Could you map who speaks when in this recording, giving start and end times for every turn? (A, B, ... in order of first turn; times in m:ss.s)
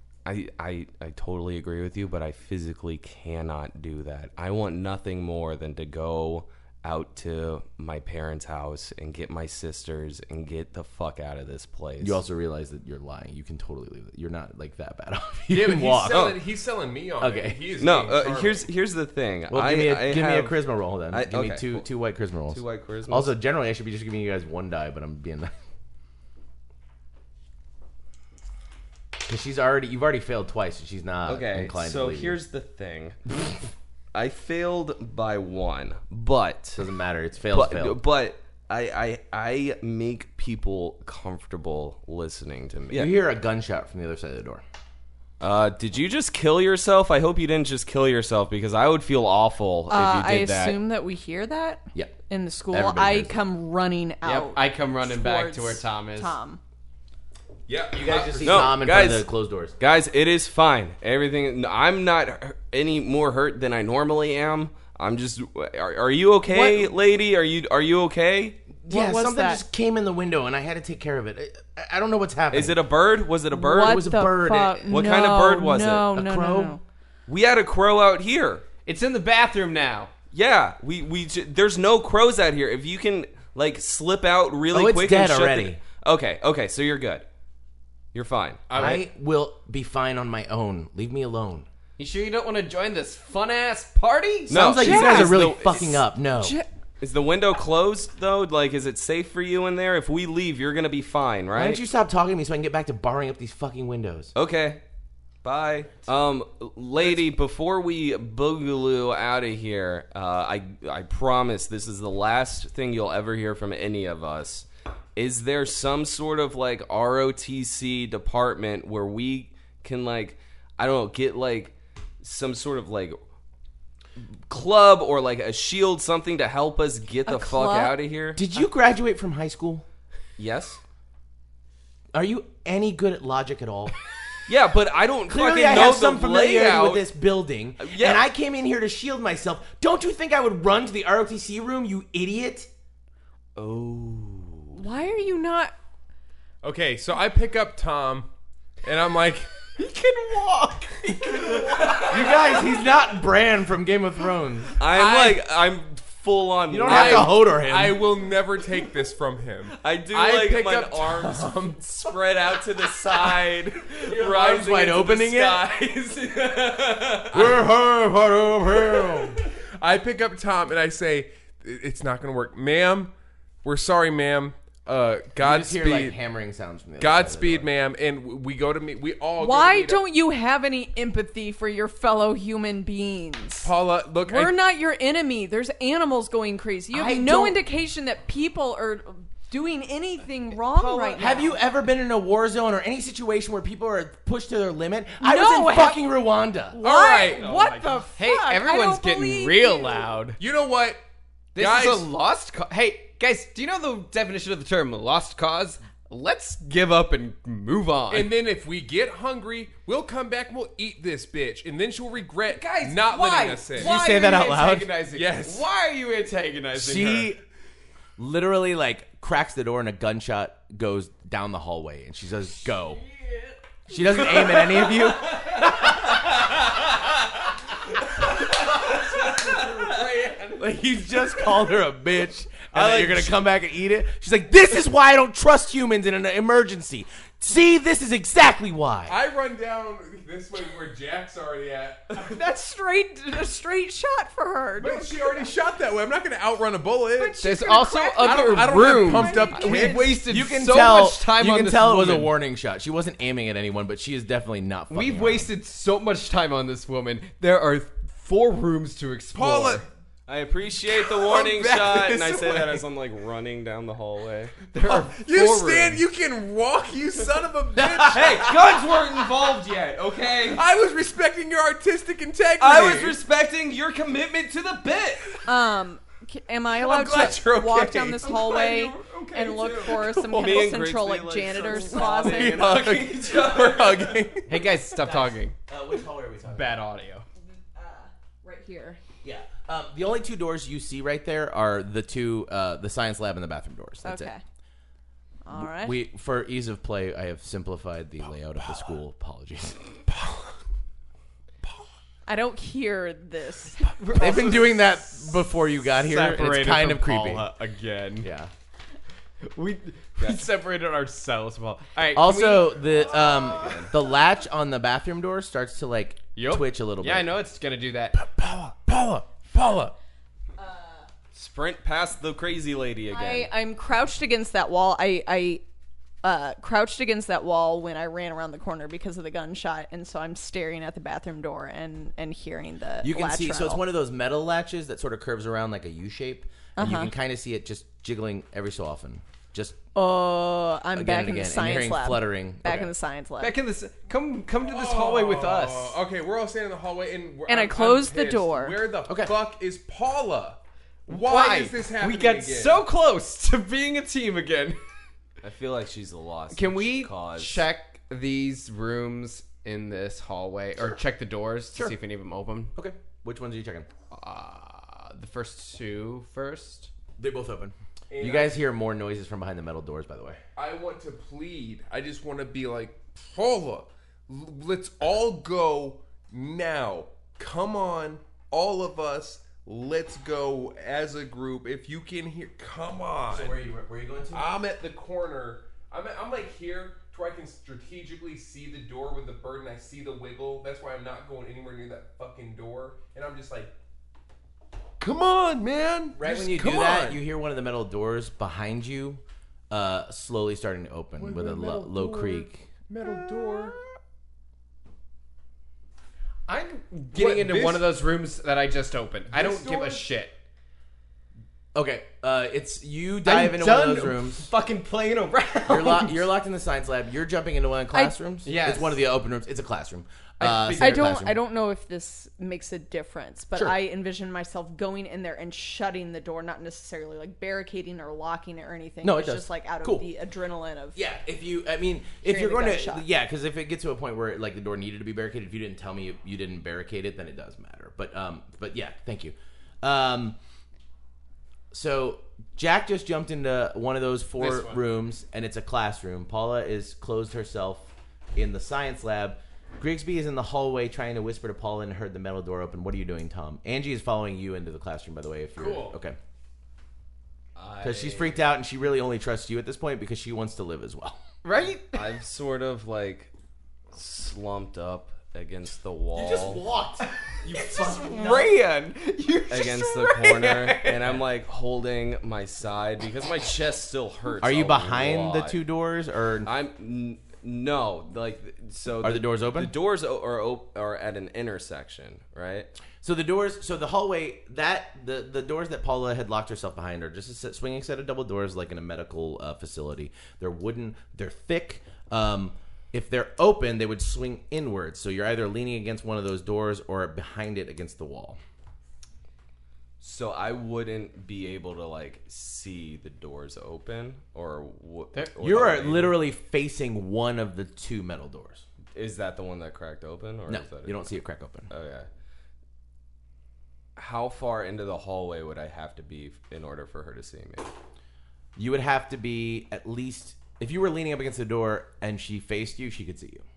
0:00.2-0:12.2 A
0:12.0-0:16.4 B
0:15.5-0:18.6 C
0:16.0-0:16.4 A
0:17.2-0:17.6 B
0:17.8-0:20.6 A
0:19.5-0:25.5 B
0:21.1-0:21.8 A
0:22.5-0:23.3 A
0:29.2-0:32.4 B
0:31.2-0:33.6 A
0:34.1-0:36.8 A
0:36.8-0:38.0 B
0:37.5-0:43.1 A
0:42.9-0:44.6 B
0:45.4-0:50.8 A
0:49.9-0:56.6 D
0:52.7-0:53.4 B
0:54.2-0:56.4 E
0:57.7-0:58.9 C
0:57.9-0:59.7 B
0:58.4-1:08.7 A
1:06.5-1:06.9 D
1:08.9-1:12.8 B
1:08.9-1:09.6 D
1:12.5-1:14.2 A
1:13.5-1:16.8 D
1:13.7-1:14.9 B
1:14.9-1:16.2 A
1:16.1-1:16.8 B
1:17.3-1:18.6 A
1:18.8-1:20.1 E
1:20.3-1:27.2 A
1:24.7-1:25.8 B
1:28.1-1:28.9 A
1:28.7-1:29.0 C
1:28.7-1:31.6 B
1:32.0-1:35.3 E
1:34.5-1:36.0 A
1:34.5-1:36.6 B
1:34.8-1:35.3 D
1:36.4-1:36.7 D
1:37.0-1:41.8 A
1:41.5-1:44.3 B
1:44.3-1:44.8 A
1:45.4-2:03.2 A
2:04.2-2:08.4 A
2:07.2-2:07.9 D
2:08.3-2:09.8 B
2:10.4-2:10.8 A
2:12.1-2:14.0 B
2:14.4-2:17.1 A
2:15.3-2:22.7 B
2:17.8-2:18.2 A
2:23.6-2:24.8 A
2:24.7-2:25.7 D
2:26.6-2:28.3 C
2:28.8-2:29.8 C
2:31.2-2:32.1 C
2:31.2-2:32.4 A
2:31.4-2:32.1 E
2:32.0-2:34.8 B
2:34.8-2:37.4 A
2:34.9-2:35.4 C
2:36.7-2:38.0 B
2:36.8-2:41.8 C
2:39.7-2:47.6 A
2:44.0-2:44.8 C
2:44.1-2:45.7 B
2:47.3-2:49.5 B
2:47.3-2:47.7 C
2:49.8-2:53.1 C
2:53.6-2:56.2 C
2:55.4-2:57.7 B
2:57.0-3:00.0 C
2:59.4-3:03.7 D
3:03.6-3:04.6 C
3:04.2-3:11.5 D
3:06.9-3:07.6 B
3:10.5-3:11.5 E
3:11.2-3:16.8 B
3:15.2-3:16.0 D
3:16.7-3:20.1 D
3:16.8-3:17.5 C
3:17.2-3:20.4 E
3:20.4-3:21.0 C
3:21.5-3:28.3 E
3:21.6-3:22.1 C
3:28.1-3:34.0 C
3:32.5-3:37.3 E
3:33.7-3:34.9 B
3:35.1-3:35.6 C
3:36.7-3:37.4 B
3:38.2-3:43.0 B
3:43.9-3:46.4 B
3:48.8-3:50.5 C
3:50.5-3:59.2 B
3:59.1-4:02.4 C
4:02.1-4:05.5 D
4:04.8-4:07.4 C
4:07.2-4:10.2 D
4:07.4-4:12.3 E
4:08.2-4:10.2 C
4:10.2-4:15.5 B
4:14.9-4:19.8 E
4:19.3-4:19.9 C
4:20.3-4:24.6 A
4:20.9-4:22.8 C
4:24.7-4:26.0 E
4:24.8-4:28.6 C
4:27.9-4:30.6 A
4:30.5-4:33.2 C
4:32.6-4:35.4 A
4:35.4-4:42.8 D
4:36.7-4:40.7 C
4:39.3-4:44.3 A
4:41.7-4:44.5 C
4:44.5-4:45.5 E
4:45.1-4:46.7 B
4:46.4-4:47.2 E
4:47.7-4:49.0 D
4:49.2-4:54.3 B
4:54.0-4:54.4 D
4:55.4-4:56.0 D
4:55.5-4:59.8 B
5:00.1-5:00.5 C
5:02.3-5:04.0 D
5:03.8-5:08.3 E
5:04.2-5:07.5 B
5:08.2-5:08.5 B
5:09.4-5:12.9 E
5:12.1-5:17.3 B
5:13.2-5:13.9 A
5:16.4-5:18.2 E
5:18.2-5:19.9 C
5:20.6-5:21.1 D
5:21.3-5:23.5 A
5:23.1-5:25.6 D
5:26.2-5:33.8 D
5:33.0-5:39.8 B
5:36.8-5:37.1 D
5:39.9-5:43.5 D
5:40.9-5:42.9 B
5:43.4-5:46.0 E
5:44.6-5:52.8 C
5:47.5-5:48.8 D
5:49.1-5:49.3 B
5:51.1-5:54.8 E
5:55.4-5:57.6 A
5:56.5-6:02.7 E
6:02.7-6:03.9 B
6:04.1-6:06.9 E
6:07.2-6:10.4 B
6:08.1-6:08.6 C
6:10.6-6:23.6 C
6:23.3-6:24.5 B
6:24.3-6:33.7 C
6:35.0-6:37.2 C
6:36.1-6:42.7 B
6:41.2-6:43.8 C
6:46.5-6:50.3 E
6:47.1-6:47.9 C
6:49.3-6:50.0 C
6:51.7-6:54.5 B
6:53.2-6:56.3 E
6:55.7-7:01.4 B
6:58.4-6:59.0 E
7:00.4-7:01.1 E
7:00.8-7:11.0 D
7:09.0-7:10.0 B
7:10.9-7:20.4 B
7:12.2-7:13.0 D
7:21.7-7:36.2 B
7:24.4-7:24.8 E
7:35.6-7:35.9 E
7:37.6-7:38.3 A
7:37.8-7:41.2 B
7:41.4-7:42.1 E
7:41.9-7:43.3 A
7:43.9-7:46.6 A
7:46.1-7:48.5 B
7:47.0-7:51.2 E
7:49.5-7:55.6 A
7:54.4-7:56.5 B
7:56.4-8:02.7 A
7:59.0-7:59.7 B
8:03.0-8:18.4 B
8:20.0-8:26.1 A
8:25.1-8:26.1 E
8:25.4-8:28.6 B
8:28.9-8:31.1 A
8:30.5-8:31.7 B
8:31.7-8:32.1 A
8:34.0-8:37.7 A
8:38.6-8:43.4 B